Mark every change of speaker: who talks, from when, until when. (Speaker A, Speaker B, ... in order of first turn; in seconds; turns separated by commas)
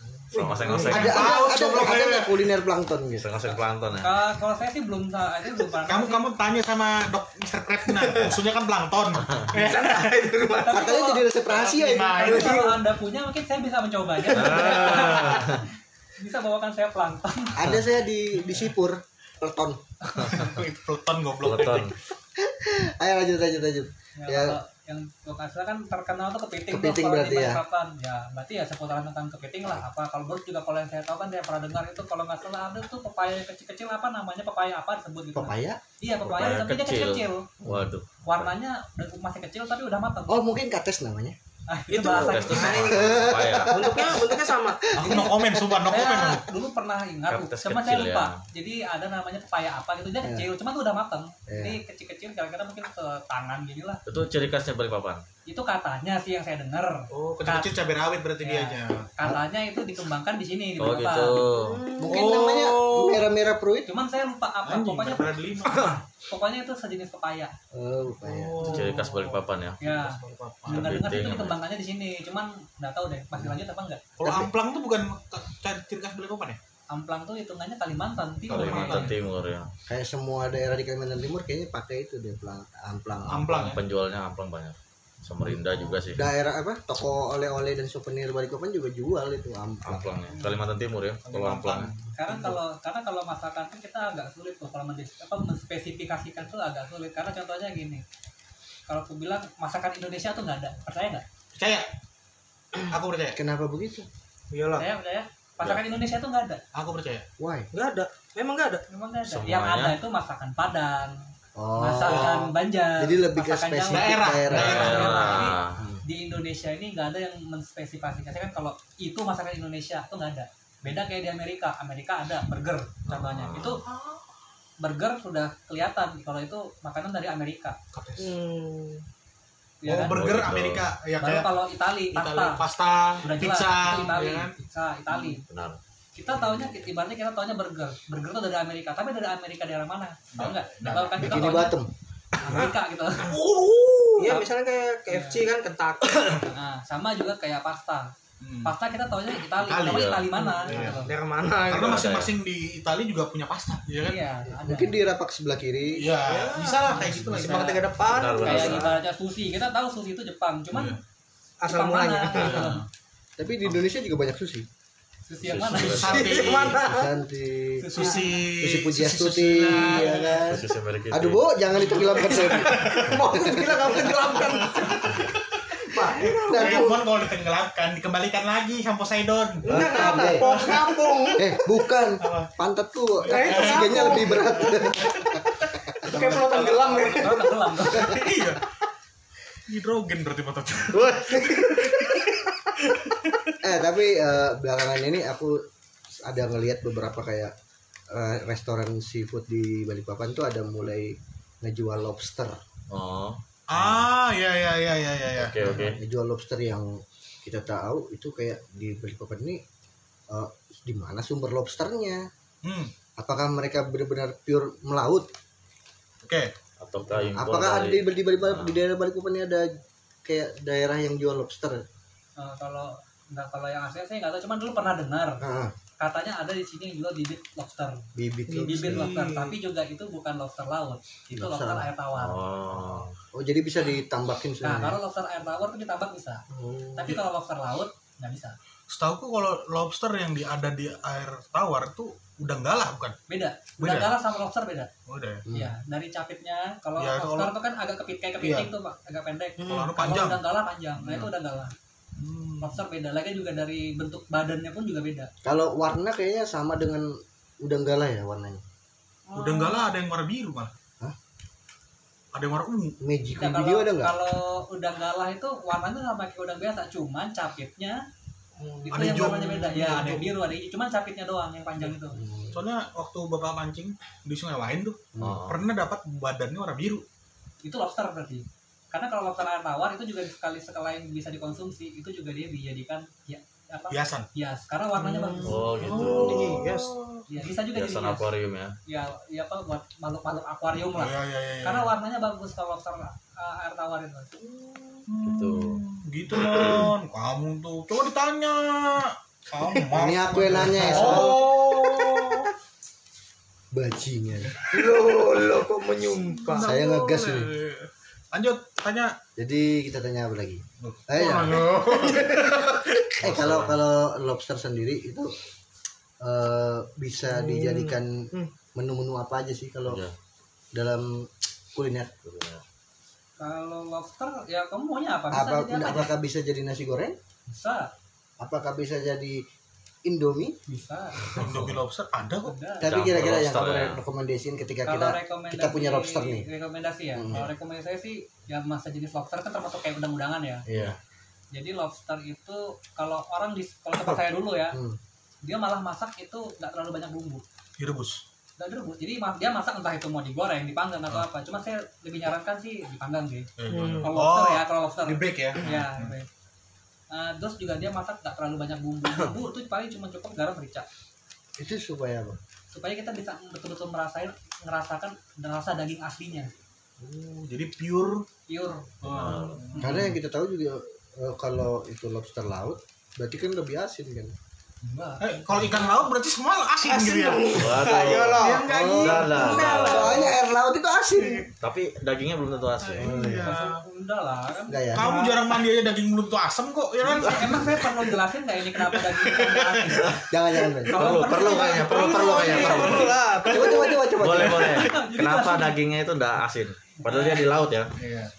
Speaker A: 0.3-0.9, Speaker B: 0.3-1.3, Speaker C: 0.8-2.5, Speaker D: 0.8-3.3, Speaker B: 3.2-4.2, Speaker E: 3.5-6.3, Speaker C: 5.9-10.1, Speaker A: 8.0-8.2, Speaker A: 9.5-10.9, Speaker E: 10.6-15.7, Speaker D: 10.7-12.4, Speaker C: 11.5-12.6, Speaker A: 12.2-12.8, Speaker B: 14.3-15.6, Speaker C: 14.8-15.3, Speaker E: 16.2-17.7, Speaker D: 17.5-19.8, Speaker E: 20.1-20.4, Speaker C: 20.2-21.9, Speaker B: 21.4-21.9, Speaker D: 22.4-24.6, Speaker E: 24.2-37.5, Speaker D: 26.7-27.6, Speaker D: 35.3-35.8, Speaker B: 36.2-38.5, Speaker E: 38.2-40.4, Speaker D: 40.3-41.4, Speaker E: 41.7-42.9, Speaker A: 41.9-44.9, Speaker B: 42.0-43.9, Speaker D: 42.8-45.9, Speaker C: 44.9-46.4, Speaker E: 45.9-54.0, Speaker B: 47.3-48.4, Speaker D: 50.2-50.5, Speaker D: 51.5-51.8, Speaker B: 54.0-55.2, Speaker E: 55.5-57.7, Speaker C: 57.1-59.1, Speaker E: 58.4-61.5, Speaker B: 60.8-61.8, Speaker A: 61.5-62.4, Speaker D: 62.0-63.9, Speaker C: 62.1-63.3, Speaker E: 63.9-65.3, Speaker C: 64.6-66.0, Speaker E: 66.3-67.5, Speaker D: 67.7-68.8, Speaker C: 68.2-71.0, Speaker B: 68.6-69.8, Speaker E: 69.8-74.0, Speaker B: 70.7-71.5, Speaker C: 74.2-76.6, Speaker D: 74.2-74.5, Speaker E: 76.9-79.1, Speaker C: 78.5-79.1, Speaker B: 78.5-79.7, Speaker D: 79.9-83.7, Speaker C: 83.2-83.8, Speaker B: 83.4-86.2, Speaker D: 85.4-90.1, Speaker B: 89.8-91.9, Speaker C: 91.2-92.4, Speaker E: 92.2-98.0, Speaker E: 98.9-101.2, Speaker C: 101.5-101.9, Speaker C: 102.8-103.4, Speaker D: 103.3-104.1, Speaker A: 104.5-104.8, Speaker E: 104.8-106.6, Speaker C: 106.7-107.2, Speaker D: 107.4-107.7, Speaker A: 107.7-108.8, Speaker E: 108.9-111.2, Speaker B: 109.2-110.0, Speaker D: 111.5-115.0, Speaker E: 111.8-123.8, Speaker C: 113.9-115.5, Speaker B: 114.5-115.8, Speaker D: 115.8-116.0, Speaker B: 123.1-123.8, Speaker C: 123.8-124.2, Speaker E: 124.8-127.8, Speaker C: 127.9-128.4, Speaker A: 128.2-129.0, Speaker E: 129.8-130.2, Speaker C: 129.8-131.5, Speaker B: 130.0-130.9, Speaker E: 131.2-132.6, Speaker C: 132.1-134.5, Speaker E: 133.2-135.4, Speaker B: 135.3-135.8, Speaker E: 136.1-141.8, Speaker C: 140.3-141.5, Speaker D: 141.2-141.9, Speaker E: 142.4-143.4, Speaker C: 143.2-144.4, Speaker A: 144.1-146.4, Speaker E: 145.1-145.4, Speaker E: 146.4-148.1, Speaker C: 148.4-148.7, Speaker E: 148.6-151.1, Speaker C: 149.6-151.0, Speaker B: 149.8-150.3, Speaker A: 150.5-152.2, Speaker C: 151.6-154.2, Speaker B: 151.7-152.3, Speaker E: 154.0-155.0, Speaker D: 154.6-156.1, Speaker C: 155.9-157.9, Speaker A: 156.2-159.0, Speaker E: 156.8-157.6, Speaker B: 158.0-159.0, Speaker E: 158.4-161.0, Speaker C: 160.7-161.0, Speaker A: 161.6-162.7, Speaker E: 161.7-162.8, Speaker C: 162.3-162.8, Speaker D: 163.4-164.7, Speaker E: 165.3-166.2, Speaker B: 165.4-166.6, Speaker C: 165.7-166.9, Speaker A: 166.1-167.1, Speaker D: 166.8-167.9, Speaker E: 167.8-168.4, Speaker C: 167.9-170.5, Speaker D: 168.6-174.0, Speaker B: 170.4-171.5, Speaker C: 171.8-181.1, Speaker A: 171.9-175.2, Speaker A: 175.8-177.0, Speaker D: 176.4-177.0, Speaker A: 179.6-181.6, Speaker D: 179.7-180.5, Speaker D: 181.4-185.2, Speaker C: 182.2-182.5, Speaker A: 183.2-184.8, Speaker C: 183.3-185.4, Speaker A: 186.0-187.7, Speaker E: 186.1-188.2, Speaker C: 187.9-188.6, Speaker C: 189.7-193.5, Speaker A: 191.3-191.7, Speaker D: 193.6-197.5, Speaker D: 198.1-202.6, Speaker B: 202.9-204.0, Speaker C: 203.7-205.9, Speaker B: 205.3-206.0, Speaker D: 205.6-209.6, Speaker D: 210.3-212.2, Speaker C: 212.6-212.9, Speaker D: 213.2-215.3, Speaker C: 216.2-216.5, Speaker B: 216.8-218.8, Speaker D: 217.1-219.7, Speaker D: 220.2-221.8, Speaker E: 222.4-225.4, Speaker D: 225.4-225.7, Speaker E: 226.0-228.0, Speaker D: 228.1-229.1, Speaker A: 228.5-229.6, Speaker E: 228.7-232.4, Speaker D: 231.3-231.9, Speaker B: 232.1-233.1, Speaker D: 233.3-235.0, Speaker E: 234.6-236.4, Speaker D: 236.5-237.1, Speaker E: 236.9-238.6, Speaker C: 238.9-243.2, Speaker E: 243.3-244.9, Speaker C: 243.8-244.1, Speaker C: 245.1-245.4, Speaker D: 245.4-245.7, Speaker E: 245.5-251.7, Speaker C: 247.0-247.5, Speaker C: 248.4-248.7, Speaker A: 249.6-249.9, Speaker C: 249.7-250.4, Speaker C: 251.0-251.3, Speaker C: 252.2-252.8, Speaker E: 252.6-255.3, Speaker D: 255.4-258.6, Speaker A: 259.3-259.8, Speaker C: 259.3-260.7, Speaker C: 262.3-263.0, Speaker D: 263.0-264.1, Speaker E: 263.4-268.0, Speaker A: 268.6-269.2, Speaker E: 268.8-272.2, Speaker C: 268.9-270.3, Speaker D: 272.1-272.6, Speaker C: 272.5-277.0, Speaker D: 275.1-275.4, Speaker B: 275.2-275.6, Speaker E: 277.6-286.0, Speaker C: 283.9-284.3, Speaker A: 284.9-287.0, Speaker B: 285.4-286.7, Speaker C: 285.8-287.2, Speaker E: 287.3-288.3, Speaker B: 287.7-288.8, Speaker E: 288.9-294.3, Speaker C: 290.9-291.9, Speaker A: 294.4-295.0, Speaker C: 295.1-302.5, Speaker B: 295.2-295.8, Speaker B: 296.5-296.9, Speaker D: 299.9-301.4, Speaker A: 301.0-302.5, Speaker D: 303.7-304.6, Speaker C: 304.6-304.9, Speaker A: 304.6-306.8, Speaker C: 306.4-309.2, Speaker D: 306.6-307.5, Speaker D: 309.4-311.7, Speaker C: 310.8-313.2, Speaker A: 311.6-312.5, Speaker D: 313.2-315.3, Speaker B: 313.2-313.8, Speaker D: 316.2-320.0, Speaker A: 317.3-318.5, Speaker B: 319.9-320.1, Speaker D: 320.7-322.1, Speaker B: 322.2-322.6, Speaker E: 323.4-326.1, Speaker D: 325.3-327.2, Speaker E: 327.5-327.9, Speaker D: 328.4-329.5, Speaker D: 330.0-330.6, Speaker E: 330.7-331.5, Speaker C: 331.3-332.5, Speaker B: 331.4-331.8, Speaker E: 332.4-332.9, Speaker D: 332.8-336.4, Speaker B: 332.9-334.0, Speaker E: 334.8-340.6, Speaker D: 337.1-337.5, Speaker D: 340.7-341.0, Speaker E: 341.5-344.8, Speaker D: 344.7-345.0, Speaker E: 345.4-347.4, Speaker C: 347.8-348.2, Speaker E: 348.6-353.5, Speaker C: 353.6-356.1, Speaker A: 353.7-354.2, Speaker E: 354.0-356.3, Speaker E: 357.1-360.9, Speaker D: 361.6-362.4, Speaker E: 362.7-366.5, Speaker C: 367.0-368.2, Speaker E: 368.5-369.5, Speaker C: 369.0-370.1, Speaker B: 369.1-369.7, Speaker D: 369.8-374.3, Speaker E: 374.8-375.8, Speaker C: 375.2-380.1, Speaker A: 376.8-380.3, Speaker B: 377.6-380.2, Speaker D: 378.6-381.4, Speaker B: 381.6-383.1, Speaker C: 382.8-383.8, Speaker D: 383.0-383.5, Speaker E: 383.4-385.0, Speaker D: 384.7-385.1, Speaker C: 384.9-388.2, Speaker A: 385.0-385.4, Speaker E: 387.0-390.2, Speaker C: 388.8-390.1, Speaker D: 390.3-391.2, Speaker E: 390.9-393.1, Speaker B: 390.9-393.2, Speaker C: 391.1-393.9, Speaker A: 391.4-394.0, Speaker D: 393.5-394.9, Speaker B: 394.1-397.9, Speaker E: 394.6-395.8, Speaker E: 397.0-397.5, Speaker C: 398.0-398.3